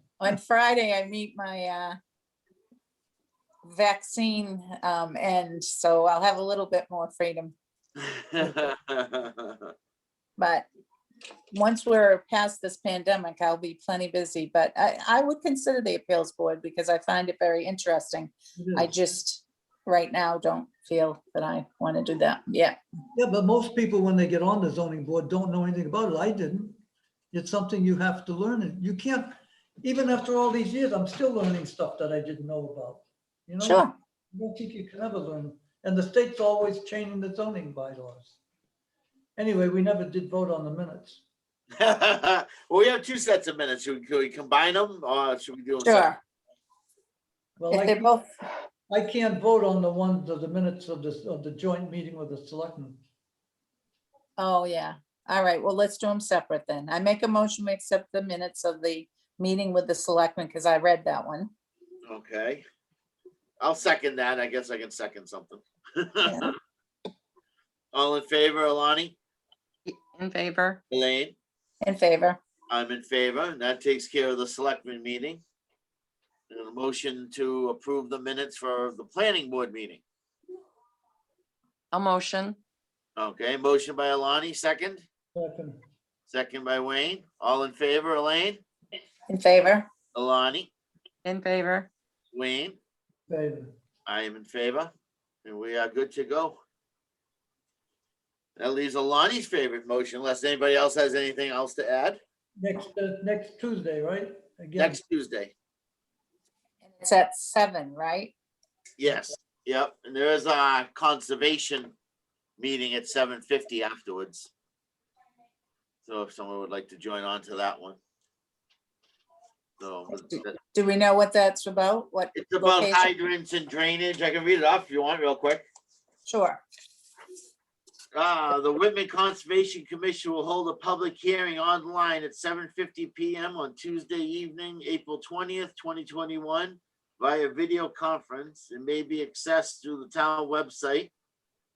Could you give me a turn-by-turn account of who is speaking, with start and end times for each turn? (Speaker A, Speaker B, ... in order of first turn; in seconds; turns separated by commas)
Speaker A: 0.2-2.0, Speaker A: 3.6-7.5, Speaker B: 8.0-9.7, Speaker A: 10.4-10.7, Speaker A: 11.5-22.8, Speaker C: 18.6-18.9, Speaker C: 23.1-26.8, Speaker C: 27.3-38.4, Speaker A: 33.6-33.9, Speaker C: 39.4-41.2, Speaker B: 41.8-46.1, Speaker A: 45.8-46.2, Speaker C: 47.6-48.1, Speaker A: 47.7-48.3, Speaker C: 48.9-53.0, Speaker A: 54.4-61.5, Speaker B: 62.0-62.6, Speaker B: 63.6-66.5, Speaker A: 66.2-66.5, Speaker B: 67.9-69.1, Speaker D: 69.8-70.8, Speaker B: 70.9-71.3, Speaker A: 71.8-72.4, Speaker B: 72.7-75.4, Speaker B: 76.5-80.0, Speaker D: 81.9-82.6, Speaker B: 83.2-85.0, Speaker C: 85.3-85.8, Speaker B: 86.3-88.6, Speaker A: 89.3-89.9, Speaker B: 90.1-90.7, Speaker D: 91.2-91.9, Speaker B: 92.3-92.8, Speaker C: 93.3-93.7, Speaker B: 94.0-94.9, Speaker B: 95.4-96.6, Speaker B: 98.6-102.2, Speaker C: 102.6-105.0, Speaker B: 104.8-105.5, Speaker A: 106.8-108.3, Speaker B: 109.0-111.9, Speaker B: 112.6-114.5, Speaker B: 116.0-118.0, Speaker B: 119.8-120.6, Speaker A: 120.1-123.1, Speaker B: 122.3-125.6, Speaker A: 126.2-126.6, Speaker B: 128.1-141.1